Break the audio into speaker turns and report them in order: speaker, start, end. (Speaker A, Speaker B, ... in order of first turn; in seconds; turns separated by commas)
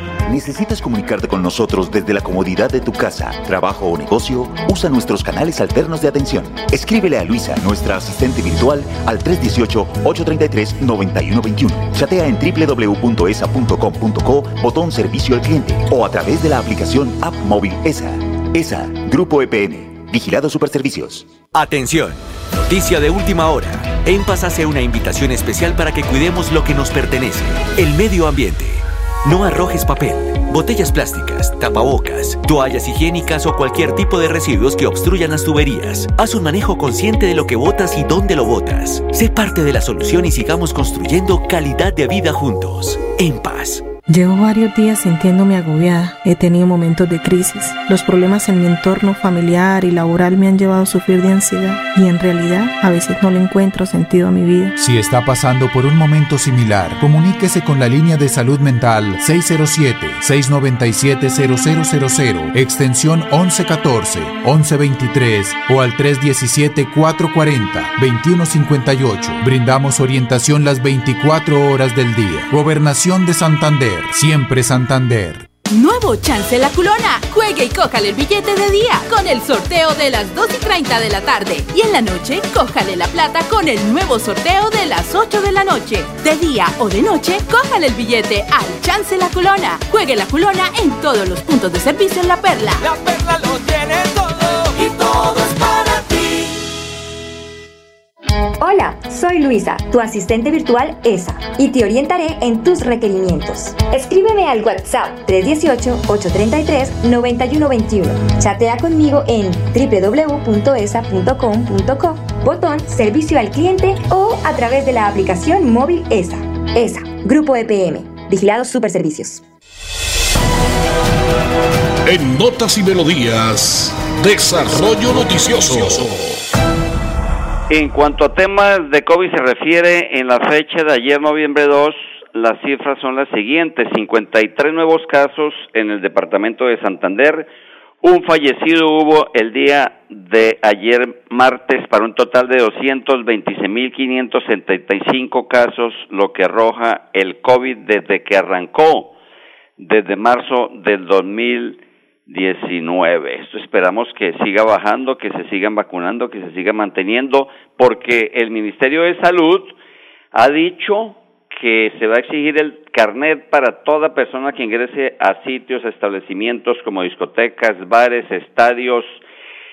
Speaker A: 0.2-21.3, Speaker B: 21.5-43.9, Speaker C: 44.1-54.7, Speaker D: 54.8-75.5, Speaker E: 75.7-92.8, Speaker F: 92.8-96.4, Speaker G: 98.6-119.4, Speaker H: 122.0-126.4, Speaker I: 127.7-137.5, Speaker I: 138.0-149.1, Speaker I: 149.8-159.7, Speaker I: 160.3-169.2